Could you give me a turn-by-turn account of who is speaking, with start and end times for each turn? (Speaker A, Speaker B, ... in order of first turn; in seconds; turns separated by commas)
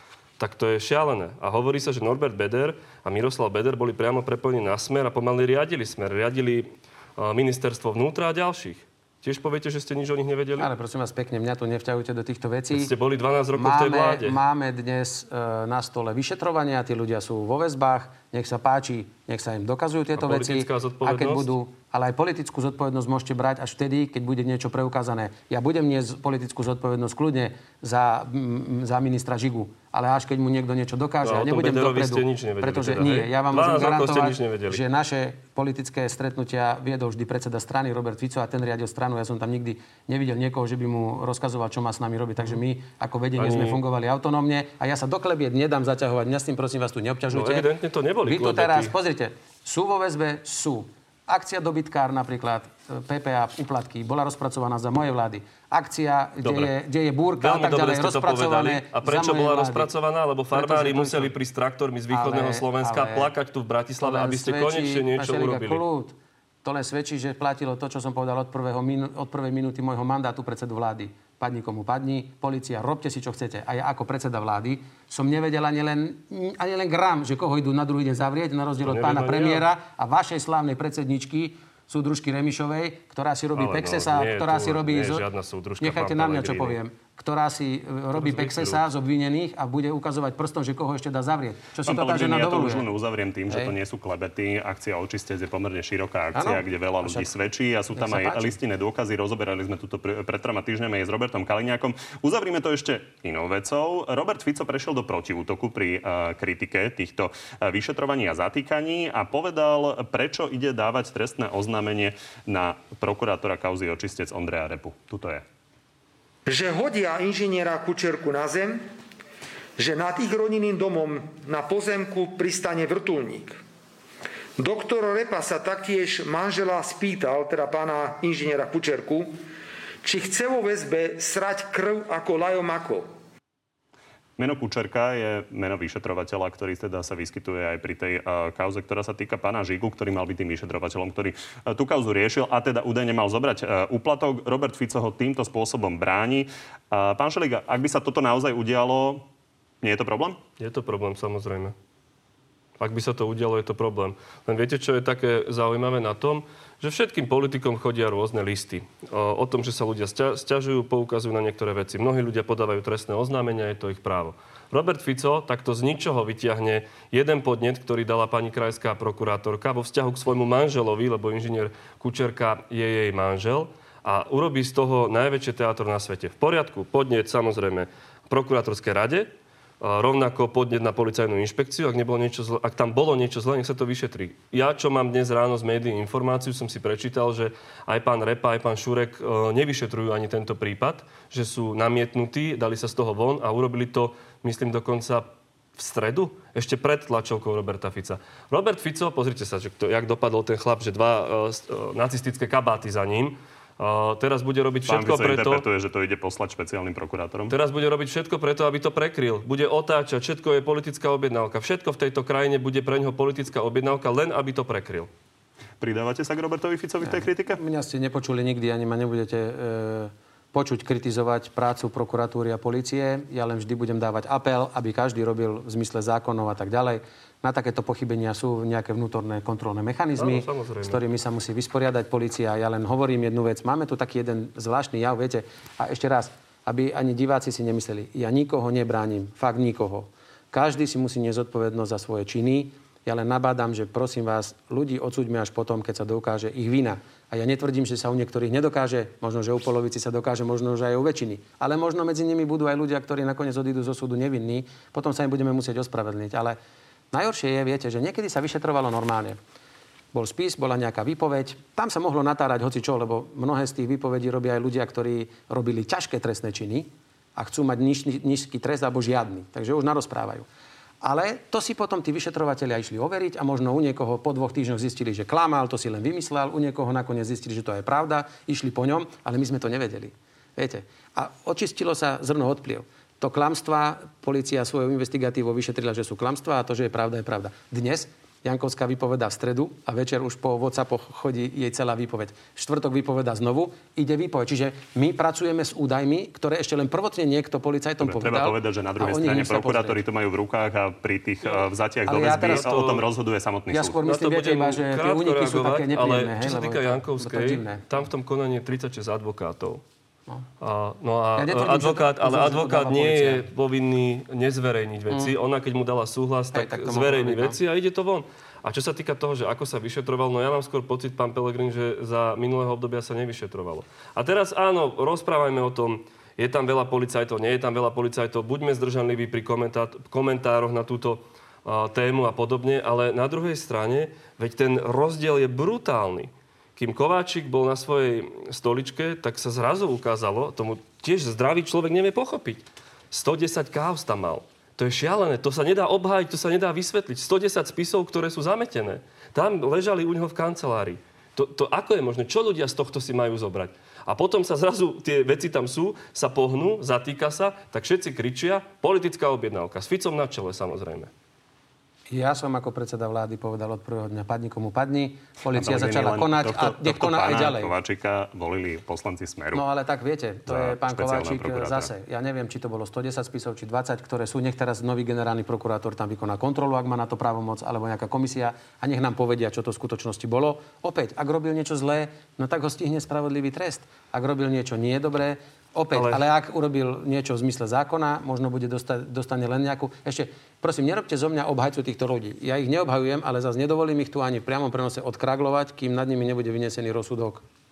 Speaker A: 0.4-10.7, Speaker B: 10.6-12.9, Speaker A: 12.7-14.4, Speaker B: 13.6-47.7, Speaker A: 20.2-21.5, Speaker A: 31.2-34.8, Speaker A: 43.4-43.8, Speaker A: 47.3-48.9, Speaker B: 48.2-59.9, Speaker A: 56.4-56.7, Speaker A: 57.4-65.8, Speaker B: 60.5-61.4, Speaker B: 62.1-63.3, Speaker B: 64.0-85.2, Speaker A: 78.8-79.6, Speaker A: 83.5-86.8, Speaker B: 85.8-92.8, Speaker A: 88.1-88.8, Speaker C: 91.8-115.4, Speaker B: 96.3-97.3, Speaker B: 98.0-98.6, Speaker D: 116.5-118.9, Speaker D: 119.8-123.6, Speaker D: 124.6-129.4, Speaker D: 130.0-133.1, Speaker C: 134.4-149.2, Speaker C: 149.8-150.4, Speaker A: 150.6-151.7, Speaker A: 152.8-179.3, Speaker A: 179.8-205.6, Speaker C: 204.9-207.5, Speaker A: 207.5-215.1, Speaker C: 215.8-217.6, Speaker B: 217.0-256.6, Speaker A: 230.2-231.0, Speaker B: 257.1-259.4, Speaker B: 260.1-270.4, Speaker B: 271.0-300.0, Speaker C: 298.0-304.0, Speaker B: 302.1-302.6, Speaker A: 302.2-303.1, Speaker B: 303.7-307.8, Speaker A: 304.0-309.8, Speaker A: 310.6-361.1, Speaker B: 311.4-313.4, Speaker B: 316.5-317.6, Speaker B: 362.1-367.7, Speaker C: 365.5-369.6, Speaker B: 369.5-397.4, Speaker C: 370.4-371.9, Speaker A: 385.9-386.2